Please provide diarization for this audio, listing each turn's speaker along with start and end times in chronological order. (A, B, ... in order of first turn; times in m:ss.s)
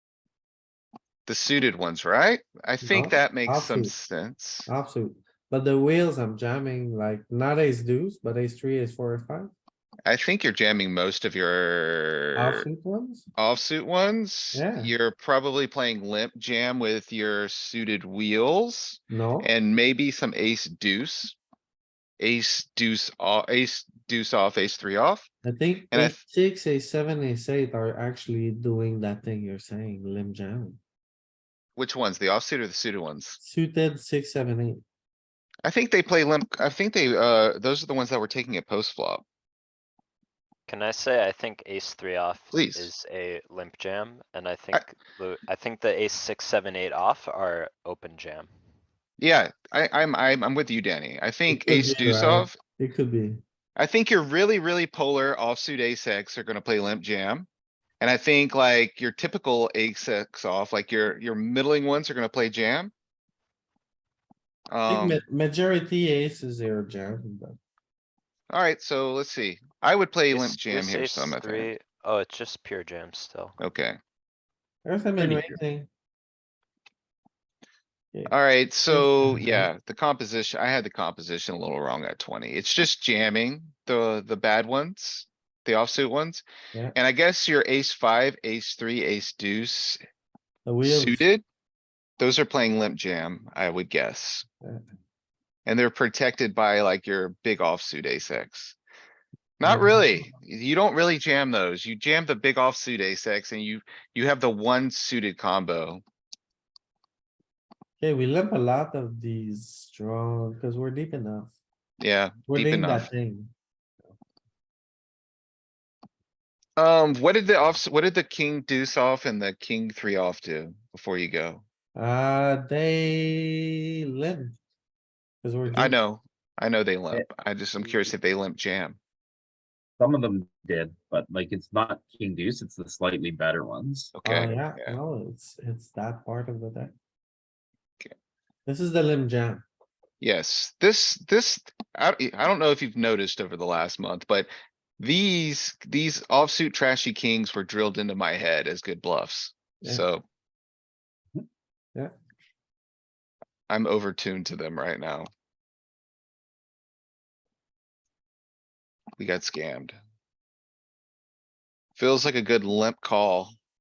0:01.3-0:04.7 A
0:02.8-0:03.9 B
0:04.7-0:09.5 B
0:10.0-0:12.7 A
0:12.4-0:13.3 B
0:13.4-0:21.4 A
0:14.5-0:14.9 B
0:19.1-0:19.5 B
0:22.2-0:25.3 A
0:25.4-0:30.8 B
0:25.9-0:26.2 A
0:31.8-0:33.4 A
0:33.4-0:34.8 B
0:35.6-0:39.2 A
0:40.7-0:48.5 C
0:42.5-0:42.9 A
0:49.2-0:52.6 A
0:51.5-0:53.4 B
0:53.8-0:57.5 A
0:58.0-1:02.9 A
1:04.7-1:05.2 A
1:04.9-1:07.6 B
1:08.5-1:11.7 A
1:10.3-1:13.6 C
1:13.6-1:14.0 A
1:14.8-1:15.9 B
1:18.3-1:26.4 A
1:18.9-1:19.7 B
1:27.0-1:30.0 A
1:30.6-1:31.2 B
1:30.8-1:31.4 A
1:32.2-1:34.5 A
1:35.7-1:38.8 A
1:39.6-1:46.0 A
1:39.6-1:40.0 B
1:48.0-1:51.6 B
1:52.0-1:53.1 A
1:52.5-1:53.5 B
1:56.8-2:01.6 A
2:02.0-2:04.6 B
2:05.4-2:06.0 B
2:05.7-2:09.0 A
2:10.0-2:14.1 D
2:14.1-2:15.0 A
2:14.2-2:16.9 B
2:18.7-2:19.6 B
2:20.2-2:30.2 A
2:33.7-2:35.3 A
2:39.2-2:40.0 A
2:42.0-2:43.6 A